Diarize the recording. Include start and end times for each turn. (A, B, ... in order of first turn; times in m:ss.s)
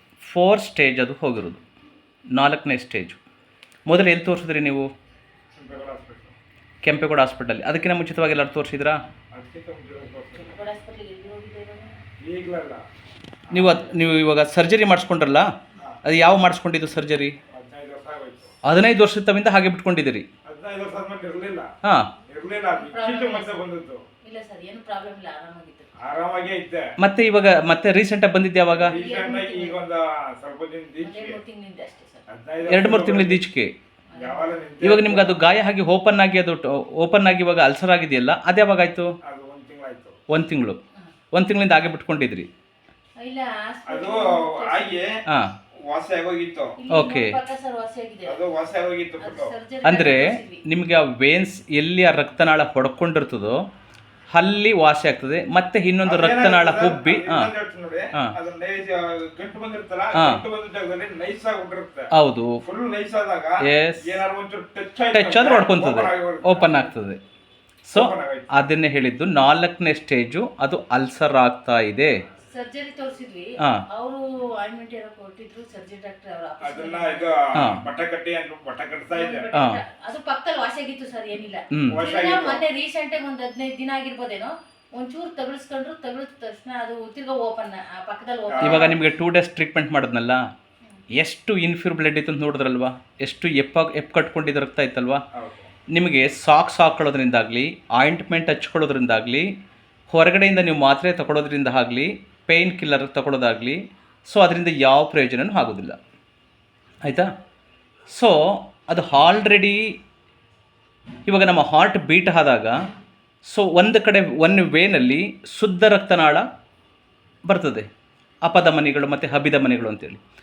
0:00.2-0:01.6 A
0:02.3-0:03.2 A
0:03.8-0:04.9 A
0:05.6-0:06.3 B
0:06.8-0:09.0 A
0:09.3-0:10.6 B
0:10.4-0:12.0 C
0:12.2-0:12.8 B
0:13.5-0:15.5 A
0:13.5-0:13.9 B
0:16.0-0:17.4 A
0:17.5-0:18.5 B
0:18.6-0:20.2 A
0:20.4-0:21.7 B
0:21.8-0:22.1 A
0:22.3-0:24.0 B
0:22.7-0:23.6 C
0:24.2-0:25.9 C
0:26.0-0:26.9 B
0:27.0-0:28.9 A
0:28.7-0:31.4 B
0:28.9-0:29.8 C
0:31.0-0:32.2 C
0:32.3-0:33.4 B
0:32.6-0:33.7 A
0:34.1-0:34.5 C
0:34.1-0:35.4 B
0:34.8-0:39.1 A
0:39.2-0:40.2 B
0:40.3-0:40.8 A
0:41.3-0:42.5 A
0:43.2-0:45.0 C
0:43.8-0:45.2 B
0:45.8-0:46.8 B
0:46.8-0:48.4 C
0:46.9-0:47.4 A
0:48.2-0:49.5 B
0:49.2-0:50.6 C
0:49.8-0:53.6 A
0:54.3-0:57.5 A
0:56.0-1:02.1 B
1:00.2-1:00.4 A
1:02.1-1:02.6 A
1:02.6-1:06.9 B
1:03.6-1:04.2 A
1:05.1-1:07.2 A
1:07.8-1:12.1 A
1:07.9-1:08.6 B
1:12.5-1:17.3 C
1:16.6-1:19.5 B
1:19.1-1:29.0 C
1:19.5-1:19.8 A
1:21.7-1:22.0 A
1:21.9-1:22.6 B
1:28.5-1:29.0 B
1:28.6-1:30.4 A
1:31.1-1:35.2 A
1:35.3-1:35.7 B
1:35.9-1:39.5 A
1:40.1-1:46.0 A
1:47.0-1:47.3 A
1:48.1-1:49.9 A
1:51.2-1:52.8 A
1:53.4-1:56.4 A
1:57.4-1:57.9 A
1:58.4-2:00.2 A